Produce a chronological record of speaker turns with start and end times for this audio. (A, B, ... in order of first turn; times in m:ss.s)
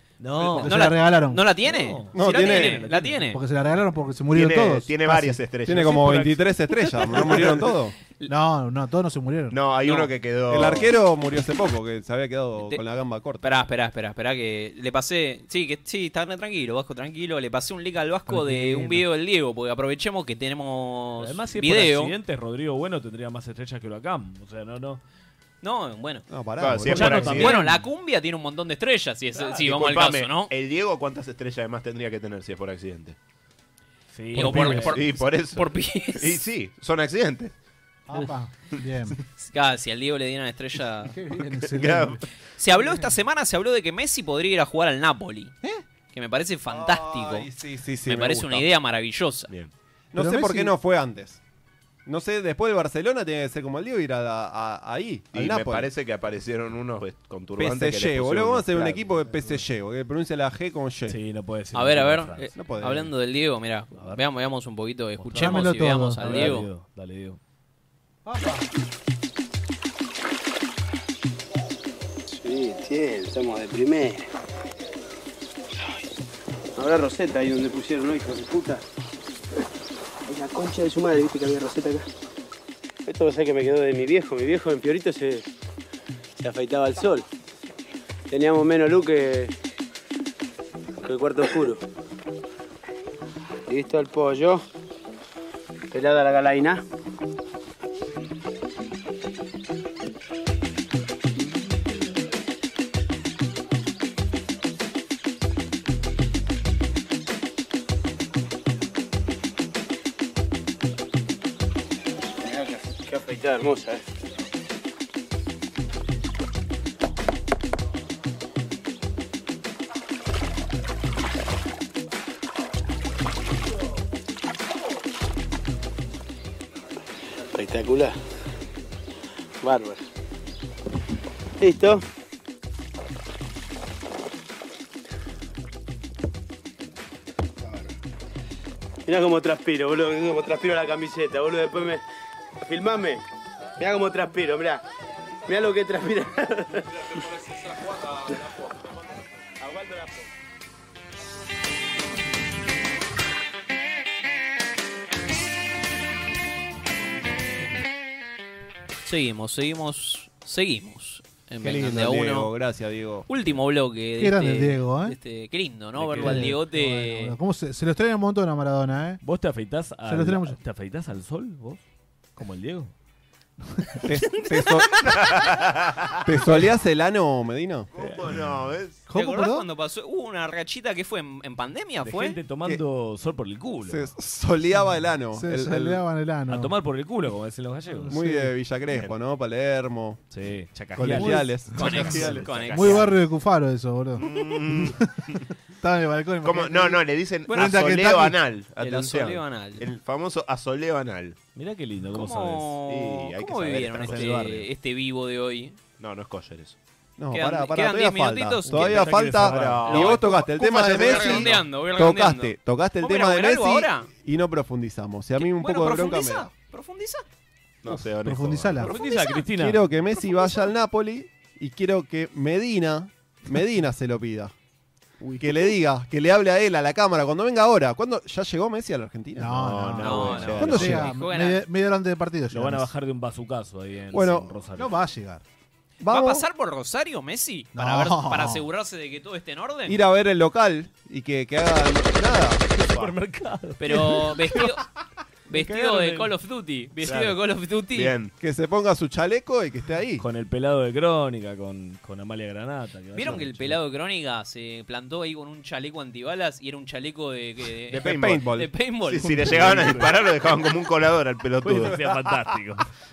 0:00.2-0:01.0 A
0:00.5-0:01.5 B
0:00.6-0:03.4 C
0:01.6-0:03.3 A
0:02.1-0:02.9 D
0:03.3-0:05.4 B
0:04.3-0:05.9 E
0:05.7-0:07.9 D
0:05.7-0:06.5 A
0:07.1-0:07.6 A
0:08.3-0:09.6 B
0:09.5-0:10.9 E
0:09.8-0:10.1 C
0:10.5-0:13.4 D
0:12.6-0:12.8 C
0:13.4-0:22.2 C
0:18.3-0:19.1 A
0:21.2-0:25.0 A
0:25.6-0:26.3 C
0:26.3-0:27.5 D
0:26.6-0:27.6 E
0:26.9-0:27.8 A
0:27.3-0:30.5 C
0:29.4-0:33.2 E
0:34.1-0:35.1 A
0:34.3-0:36.4 C
0:34.4-0:37.5 E
0:38.1-0:39.2 B
0:39.4-0:41.2 C
0:41.0-0:42.2 B
0:41.5-0:42.2 E
0:42.6-0:45.5 C
0:42.8-0:43.1 B
0:46.1-0:47.5 C
0:46.7-0:48.7 D
0:48.1-0:49.5 C
0:50.1-0:51.4 D
0:50.2-0:50.7 B
0:52.1-0:55.9 D
0:55.3-0:59.6 E
0:57.6-1:01.2 D
1:01.1-1:02.5 A
1:01.7-1:06.7 C
1:02.6-1:03.1 D
1:03.9-1:04.2 A
1:05.2-1:07.4 A
1:05.3-1:06.6 B
1:08.2-1:08.7 B
1:12.3-1:14.2 F
1:16.8-1:18.8 F
1:20.3-1:22.0 F
1:23.1-1:25.4 F
1:26.4-1:27.2 F
1:28.3-1:29.5 F
1:31.0-1:31.8 F
1:33.7-1:34.6 F
1:35.9-1:36.8 F
1:52.4-1:54.0 F
2:07.6-2:08.1 F
2:09.6-2:10.0 F
2:11.6-2:12.0 F
2:19.1-2:22.0 F
2:22.6-2:23.2 F
2:23.8-2:24.8 F
2:25.5-2:26.7 F
2:29.6-2:30.2 F
2:39.0-2:42.5 C
2:41.6-2:43.3 D
2:43.3-2:47.4 C
2:44.2-2:45.2 B
2:46.0-2:46.6 A
2:46.2-2:49.2 B
2:49.2-2:51.8 A
2:50.1-2:50.6 B
2:52.4-2:52.9 A
2:54.1-2:55.4 D
2:55.0-2:56.2 E
2:56.3-2:57.9 D
2:57.9-2:59.0 E
2:58.0-2:58.5 A
2:59.1-2:59.7 B
2:59.1-3:02.4 C
3:02.0-3:04.1 A
3:03.8-3:06.0 D
3:05.3-3:06.7 B
3:06.5-3:08.2 A
3:07.9-3:08.6 B
3:08.1-3:10.2 D
3:10.3-3:12.3 A
3:11.0-3:12.7 D
3:11.7-3:13.1 C
3:12.0-3:13.1 E
3:12.7-3:15.2 B
3:14.2-3:15.5 E
3:15.8-3:18.4 B
3:16.4-3:21.4 E
3:17.5-3:17.9 C
3:18.8-3:19.8 C
3:21.6-3:22.8 A
3:22.1-3:25.8 C
3:22.9-3:24.3 E
3:24.0-3:24.7 A
3:26.0-3:26.8 E
3:27.2-3:36.5 D
3:27.3-3:34.1 C
3:28.6-3:30.1 A
3:29.4-3:31.6 E
3:35.4-3:37.3 C
3:37.8-3:38.9 E
3:37.9-3:38.9 B
3:38.8-3:39.4 C
3:38.8-3:39.9 A
3:39.5-3:44.5 D
3:45.3-3:51.0 D
3:49.4-3:52.9 B
3:49.5-3:51.1 E
3:50.0-3:51.6 C
3:50.4-3:50.7 A
3:52.5-3:54.9 A
3:54.1-3:54.6 D
3:54.8-3:55.4 B
3:56.0-3:56.4 D
3:56.1-4:00.0 C
3:57.8-3:58.7 B
3:59.9-4:02.7 D
4:02.8-4:04.8 A
4:03.8-4:04.8 C
4:05.5-4:08.1 C
4:05.5-4:06.3 A
4:07.0-4:08.3 E
4:08.4-4:10.2 D
4:10.2-4:13.8 A
4:13.1-4:19.7 C
4:17.9-4:18.4 E
4:18.0-4:18.7 D
4:19.1-4:22.4 E
4:19.4-4:20.2 A
4:21.6-4:22.9 A